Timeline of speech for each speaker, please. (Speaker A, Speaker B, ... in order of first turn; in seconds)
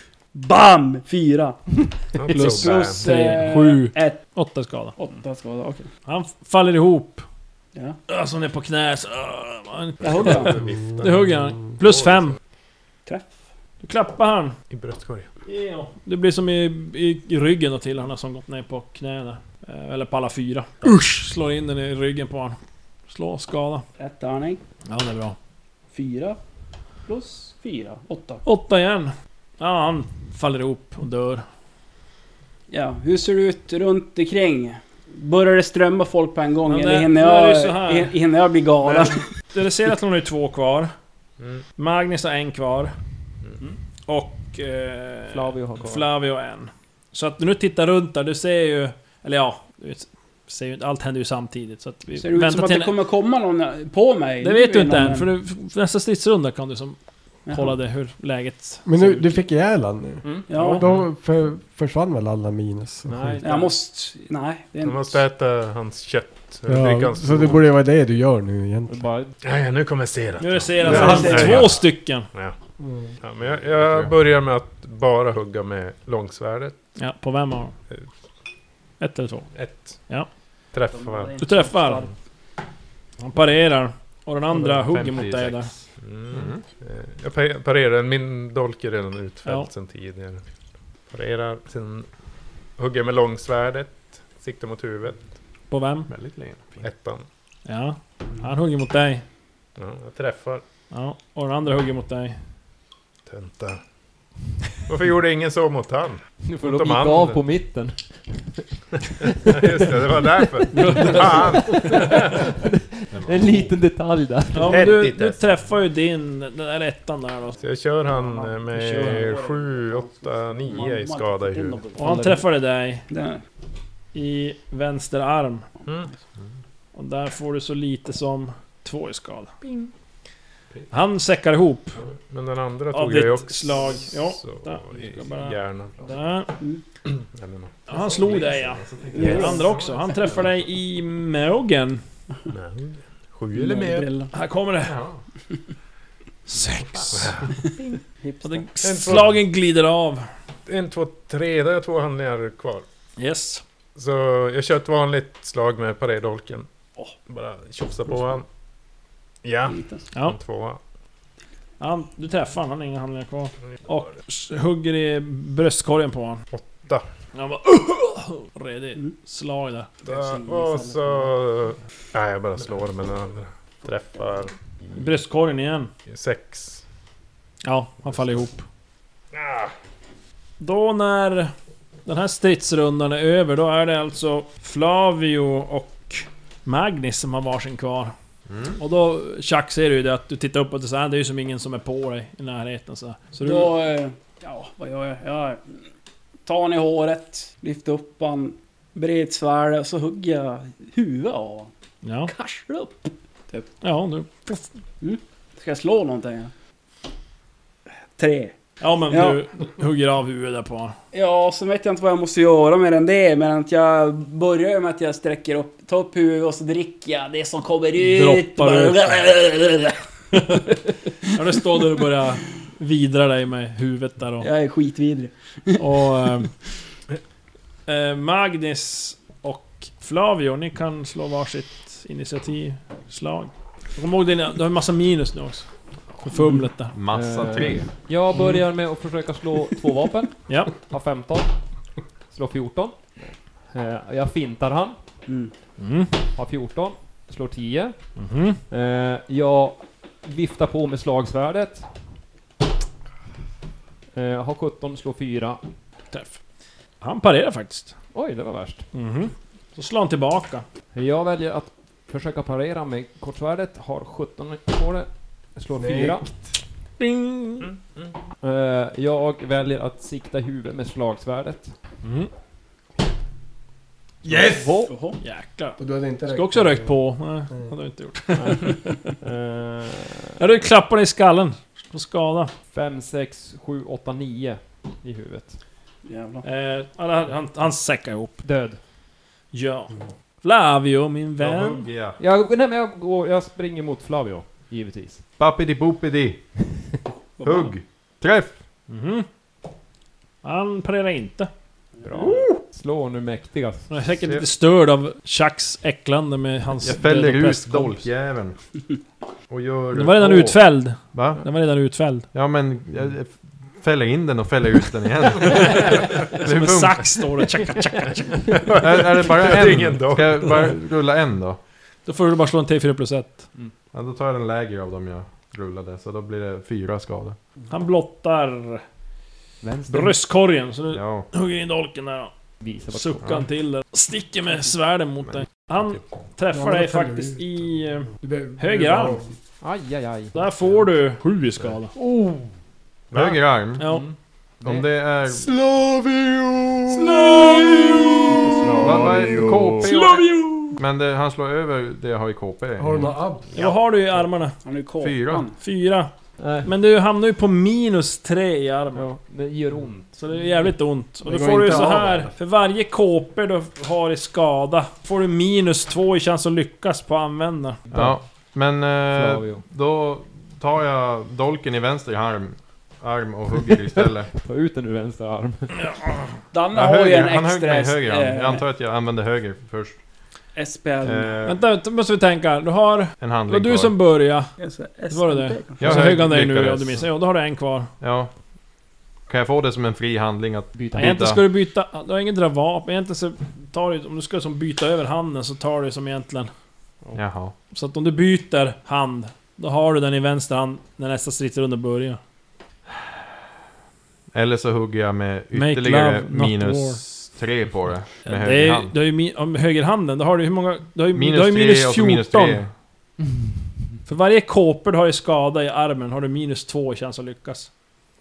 Speaker A: 0.3-4.3, 5.0-5.9, 10.0-10.6, 13.1-13.3, 24.0-24.6, 25.9-26.4, 27.1-28.4, 32.7-39.2, 52.2-55.3, 57.5-57.8, 60.5-60.9, 63.4-65.2, 70.9-71.6, 80.9-82.1, 118.0-122.3, 123.1-123.4, 139.1-139.7, 143.5-144.3, 147.6-148.7, 159.7-160.0, 170.0-171.3, 193.4-195.6, 196.4-201.7, 202.3-203.7, 205.0-206.5, 208.1-208.6, 209.1-209.4, 211.1-219.9, 224.4-226.1, 236.3-236.6, 245.3-245.5, 274.8-275.2, 286.0-286.4, 297.4-297.8, 302.0-302.5, 349.9-350.8, 354.6-355.5, 376.5-378.6, 380.5-381.4, 384.6-386.0
Speaker B: 2.1-3.1, 10.2-12.4, 14.7-15.3, 64.8-67.6, 69.4-72.5, 73.2-76.8, 79.5-80.0, 80.7-81.4, 86.0-90.5, 91.1-92.1, 92.8-95.3, 96.8-97.2, 99.8-100.6, 103.2-103.8, 104.9-107.4, 109.5-112.4, 114.7-115.6, 117.6-121.8, 125.8-126.1, 132.0-136.1, 137.1-138.5, 139.2-139.6, 142.5-144.1, 147.1-147.5, 148.8-149.4, 150.7-152.8, 153.9-156.7, 157.3-158.5, 159.4-160.8, 166.5-167.0, 170.0-174.5, 176.1-176.8, 179.3-179.7, 267.6-268.1, 315.5-316.2, 318.5-320.8, 343.1-343.4, 348.6-349.8
Speaker C: 2.3-5.0, 6.0-7.2, 8.1-12.3, 13.8-14.6, 15.4-22.6, 23.1-23.9, 24.9-25.4, 28.4-31.4, 36.7-38.1, 38.8-40.9, 41.8-42.9, 44.1-52.9, 54.4-59.4, 60.5-60.8, 70.4-72.3, 77.0-77.7, 79.0-80.3, 81.4-82.1, 83.2-85.7, 95.7-96.1, 97.7-99.2, 100.9-102.4, 110.7-111.8, 114.5-117.6, 118.7-119.3, 122.0-123.1, 124.1-125.7, 126.9-129.5, 130.9-132.0, 132.9-136.5, 137.9-142.0, 144.3-145.0, 146.5-147.3, 148.4-150.2, 153.2-153.6, 161.8-166.4, 167.3-169.9, 174.9-175.9, 177.6-178.7, 180.6-181.5, 182.1-188.1, 188.8-193.7, 202.0-202.3, 203.8-204.7, 208.8-210.9, 218.0-219.3, 220.3-220.7, 221.3-224.5, 225.8-226.5, 227.9-236.9, 238.3-238.6, 240.5-240.7, 245.8-246.2, 248.2-248.6, 256.1-256.4, 257.0-257.9, 258.9-260.6, 267.0-267.7, 272.0-272.3, 275.2-279.1, 280.4-282.5, 286.4-288.4, 289.5-291.9, 298.9-299.2, 300.4-301.5, 303.9-308.1, 309.9-312.3, 316.4-318.6, 322.0-323.5, 327.7-328.8, 329.9-332.3, 332.9-339.2, 340.3-341.9, 343.8-344.0, 349.8-350.2, 353.5-354.6, 355.6-356.1, 356.6-359.1, 360.1-367.8, 375.8-376.3, 381.4-384.6, 385.1-387.9, 390.9-396.5, 397.7-402.2, 405.5-407.0, 408.2-412.6, 414.1-417.8
Speaker D: 45.3-46.1, 63.1-63.7, 68.9-69.3, 106.5-108.7, 109.2-114.9, 122.0-122.4, 237.1-241.6, 242.3-245.0, 246.3-251.9, 254.1-255.6, 258.1-258.9, 260.9-266.2, 268.4-271.7, 274.3-274.9, 278.4-280.4, 282.7-285.6, 288.4-288.8, 292.2-295.2, 302.0-304.0, 329.6-330.2, 332.6-333.2, 339.6-340.3, 343.8-344.1, 348.6-349.1, 356.4-356.7, 358.9-360.6, 367.9-368.2, 369.1-369.6, 373.7-375.8, 390.7-391.4, 413.2-413.4
Speaker E: 58.8-63.4, 66.7-69.0, 70.8-71.5, 72.8-73.1, 265.7-266.6, 274.2-274.9, 275.8-277.7, 336.5-337.4, 338.2-339.3, 342.0-342.4, 345.4-349.7, 352.8-353.5, 361.2-362.3
Speaker F: 73.8-74.1, 84.5-86.6, 96.1-96.8, 113.1-113.7, 138.2-140.5, 144.8-145.2, 146.5-147.5, 188.5-188.8, 236.9-237.9, 291.4-292.2, 295.4-296.7, 297.4-298.6, 306.8-308.6, 309.5-311.5, 312.3-317.4, 318.8-321.6, 323.9-327.4, 330.9-331.3, 333.2-333.5, 343.1-343.8, 344.6-345.5, 348.8-353.7, 355.0-355.5, 367.9-374.3, 376.7-379.9, 381.0-381.6, 383.2-384.0, 385.8-387.1, 388.0-388.3, 389.3-391.5, 397.1-397.5, 404.3-408.9, 411.1-412.7